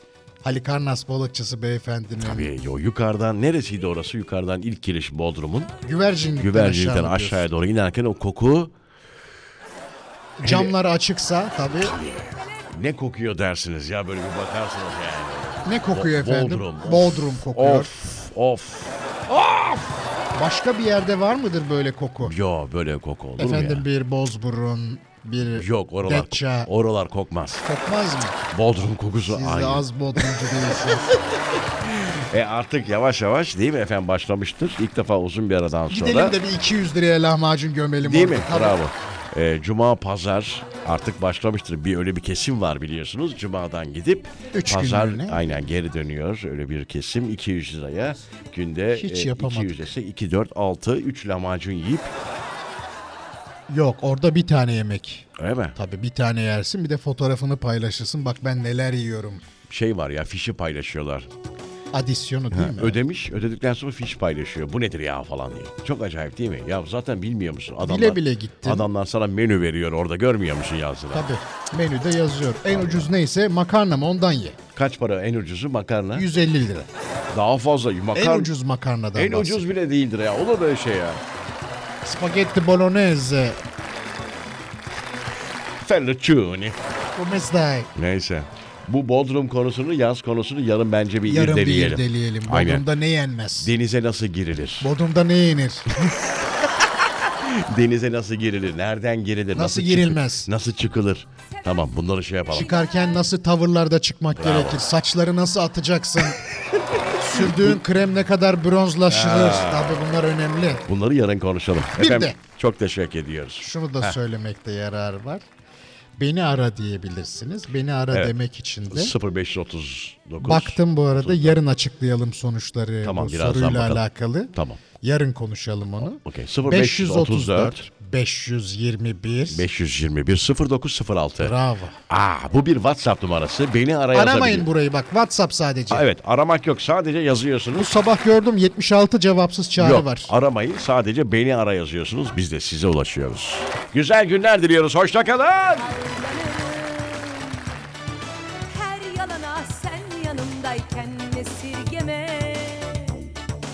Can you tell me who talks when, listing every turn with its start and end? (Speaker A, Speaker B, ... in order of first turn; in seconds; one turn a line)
Speaker A: 0.4-2.5
Speaker B: 2.2-5.7
Speaker A: 5.8-7.5
Speaker B: 6.4-8.7
Speaker A: 10.4-12.0
Speaker B: 10.4-10.7
Speaker B: 11.8-19.9
Speaker A: 15.6-17.9
Speaker A: 20.4-22.3
Speaker B: 22.2-23.8
Speaker A: 23.4-26.7
Speaker B: 25.6-27.6
Speaker A: 27.6-28.4
Speaker B: 28.5-30.4
Speaker A: 29.3-31.1
Speaker B: 32.0-36.4
Speaker A: 35.9-38.8
Speaker B: 38.0-52.1
Speaker A: 44.5-45.5
Speaker A: 48.9-49.8
Speaker A: 53.7-59.4
Speaker B: 55.4-55.7
Speaker B: 59.7-61.3
Speaker A: 61.9-63.0
Speaker B: 62.5-71.3
Speaker A: 67.8-68.9
Speaker A: 71.1-74.6
Speaker B: 72.7-73.1
Speaker B: 74.8-76.3
Speaker A: 76.1-76.9
Speaker B: 77.3-78.5
Speaker A: 78.1-79.7
Speaker B: 79.1-81.2
Speaker A: 82.0-83.6
Speaker B: 85.8-86.8
Speaker A: 87.2-87.9
Speaker B: 87.9-92.9
Speaker A: 91.2-93.7
Speaker B: 93.6-94.9
Speaker A: 94.8-95.9
Speaker B: 95.9-96.2
Speaker B: 96.8-102.7
Speaker A: 99.5-100.5
Speaker A: 102.5-106.4
Speaker B: 104.3-104.8
Speaker A: 107.2-110.8
Speaker B: 107.3-107.8
Speaker B: 109.1-110.1
Speaker B: 110.8-114.2
Speaker A: 112.0-112.4
Speaker A: 113.6-115.5
Speaker A: 116.2-119.1
Speaker B: 118.9-121.6
Speaker A: 120.4-129.6
Speaker B: 123.0-124.8
Speaker B: 126.0-127.8
Speaker B: 129.5-131.5
Speaker A: 131.4-132.0
Speaker B: 132.1-134.7
Speaker A: 134.1-136.0
Speaker B: 135.9-137.9
Speaker A: 137.8-140.3
Speaker B: 139.8-145.9
Speaker C: 145.8-147.7
Speaker C: 148.7-153.3